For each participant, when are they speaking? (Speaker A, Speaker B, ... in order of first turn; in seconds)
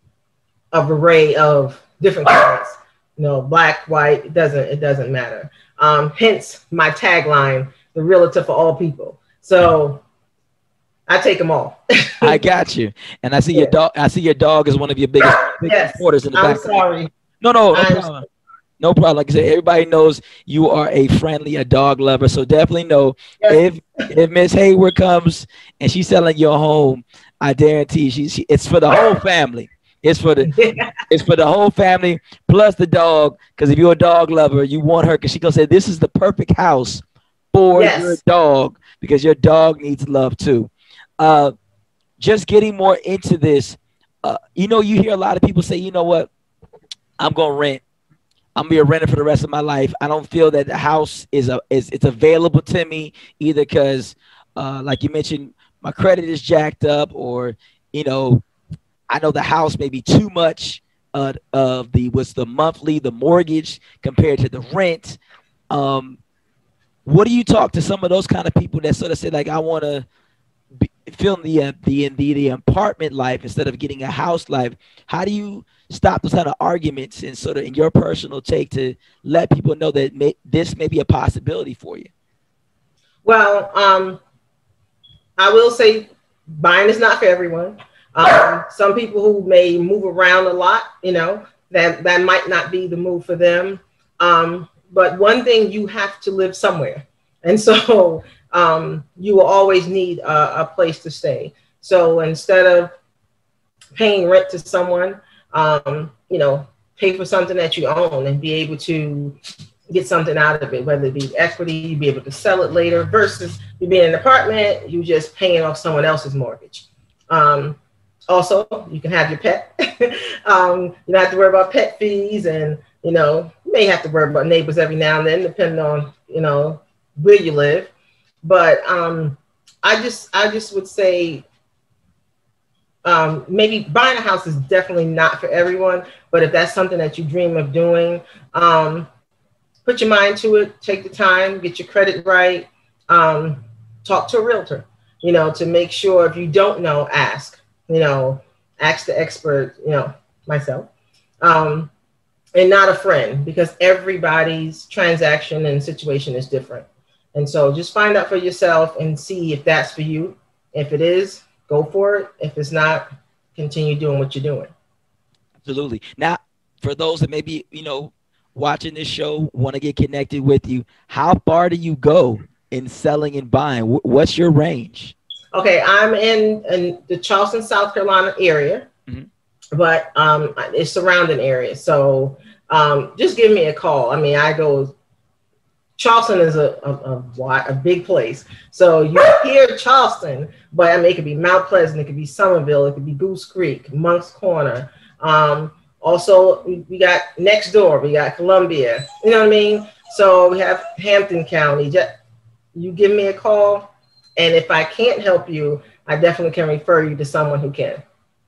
Speaker A: 0.7-10.0, 11.1-12.4, 15.6-17.1, 17.7-18.1, 30.4-30.9, 37.7-38.2, 83.2-84.2, 85.4-102.9, 103.9-109.3, 109.9-117.8, 118.3-127.9, 128.4-131.4, 133.0-139.1, 139.8-151.9, 152.5-164.7, 175.5-178.9, 179.7-184.9, 186.0-202.1, 202.7-208.0
Speaker B: 12.2-16.8, 17.4-18.2, 18.8-30.5, 31.1-41.5, 42.2-46.3, 47.2-47.8, 48.5-58.4, 59.1-65.2, 65.7-66.2, 67.0-70.0, 70.8-82.1, 165.6-175.1